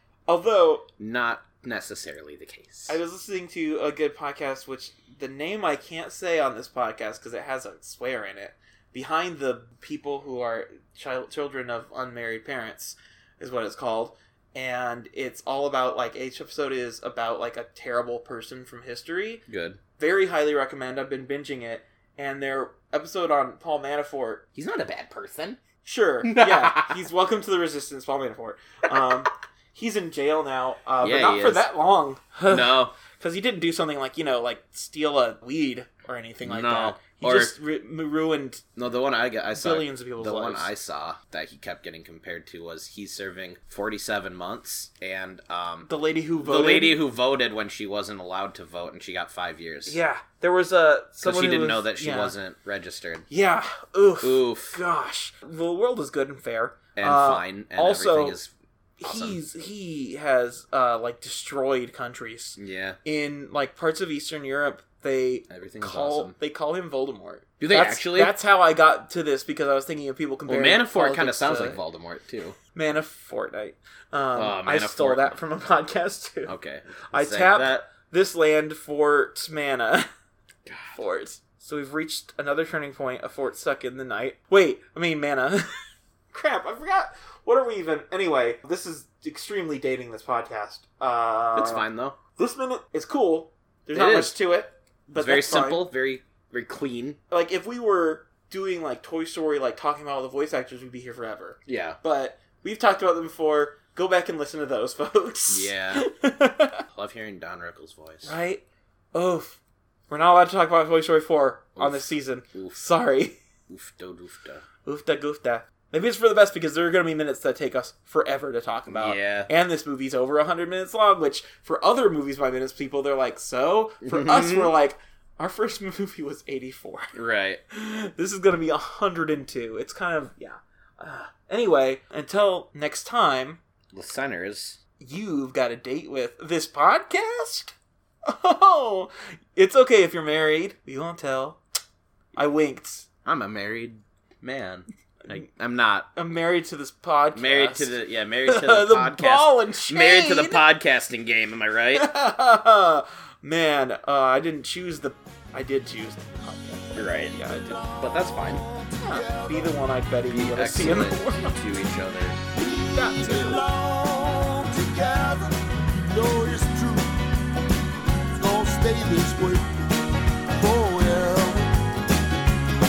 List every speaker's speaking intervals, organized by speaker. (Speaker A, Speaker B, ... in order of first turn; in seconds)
Speaker A: 0.3-0.9, 2.9-19.4, 20.0-24.4, 25.8-38.6, 39.5-40.7, 45.8-47.0, 49.9-52.3, 53.3-58.4, 59.0-71.8, 72.7-76.5, 77.1-80.1, 80.9-85.7, 86.3-91.8, 92.3-95.9, 97.3-106.8, 108.2-113.4, 114.8-127.1, 127.7-133.6, 135.0-137.7, 138.2-141.6, 142.3-143.1, 146.1-150.6, 151.9-157.9, 158.9-161.5, 162.6-163.7
Speaker B: 1.0-3.0, 19.5-19.8, 24.5-25.6, 26.2-27.0, 31.0-31.7, 32.5-32.9, 36.4-37.5, 38.8-50.0, 51.2-53.2, 54.2-54.8, 57.0-59.4, 62.6-63.0, 65.5-66.3, 67.6-68.4, 70.5-72.5, 74.3-75.3, 76.5-77.9, 80.7-81.0, 91.5-92.2, 93.9-94.3, 95.2-97.2, 101.7-102.0, 105.5-106.0, 106.9-108.3, 111.8-112.8, 113.7-114.6, 118.9-119.5, 124.0-124.7, 127.1-127.6, 133.9-134.8, 143.2-146.1, 147.3-152.1, 156.9-158.6, 160.3-162.4
Speaker C: 157.7-159.7, 162.6-167.1, 168.3-169.9, 170.5-171.7